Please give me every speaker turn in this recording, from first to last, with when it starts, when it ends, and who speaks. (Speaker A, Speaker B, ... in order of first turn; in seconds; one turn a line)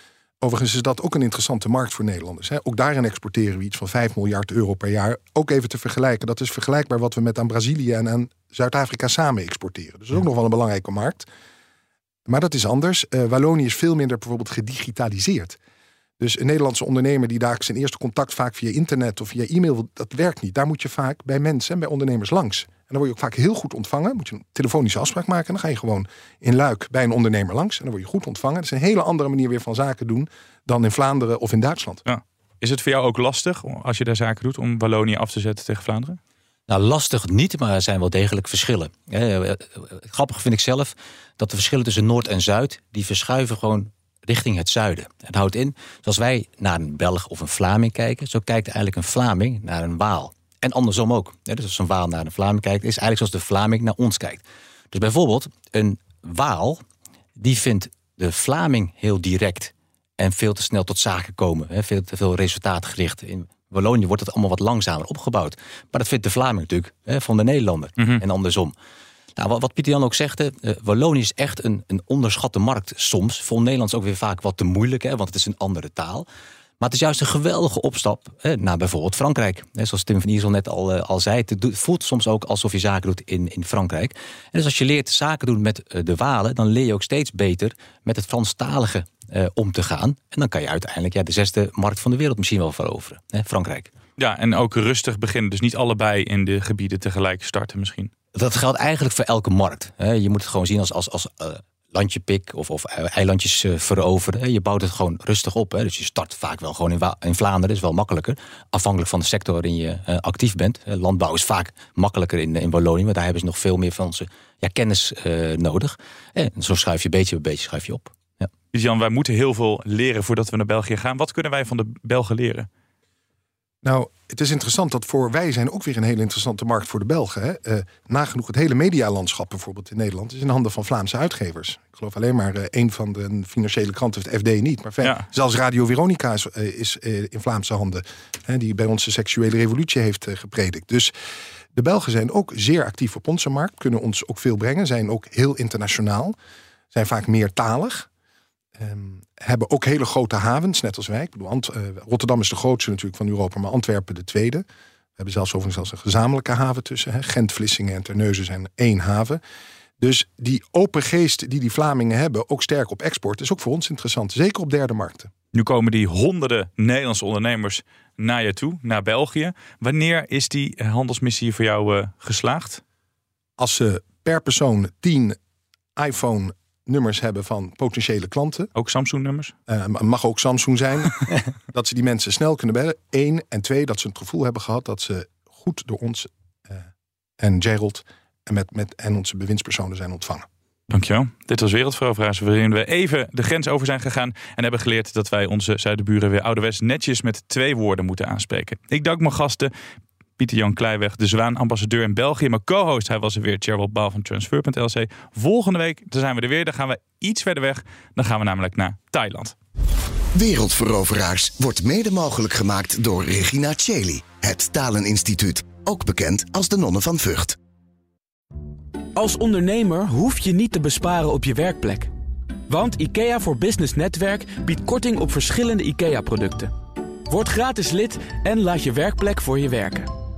Speaker A: 0.4-11.2
Speaker A: 12.2-15.6
Speaker A: 16.2-32.0
Speaker B: 32.0-36.2
Speaker C: 36.7-56.8
Speaker C: 57.4-68.7
Speaker C: 69.4-76.3
Speaker C: 76.8-93.9
Speaker B: 94.2-98.1
Speaker C: 98.3-118.5
Speaker B: 118.7-122.7
Speaker A: 123.8-141.1
Speaker A: 141.7-146.4
Speaker A: 146.9-148.1
Speaker A: 148.8-154.7
Speaker A: 155.2-159.4
Speaker A: 160.0-165.3
Speaker B: 165.5-172.8
Speaker A: 173.6-175.4
Speaker A: 175.9-178.7
Speaker B: 178.7-179.5
Speaker A: 179.7-186.9
Speaker A: 187.4-190.5
Speaker B: 190.9-199.7
Speaker B: 200.4-209.5
Speaker D: 210.3-217.6
Speaker E: 219.1-222.1
Speaker E: 222.7-226.7
Speaker E: 227.3-230.1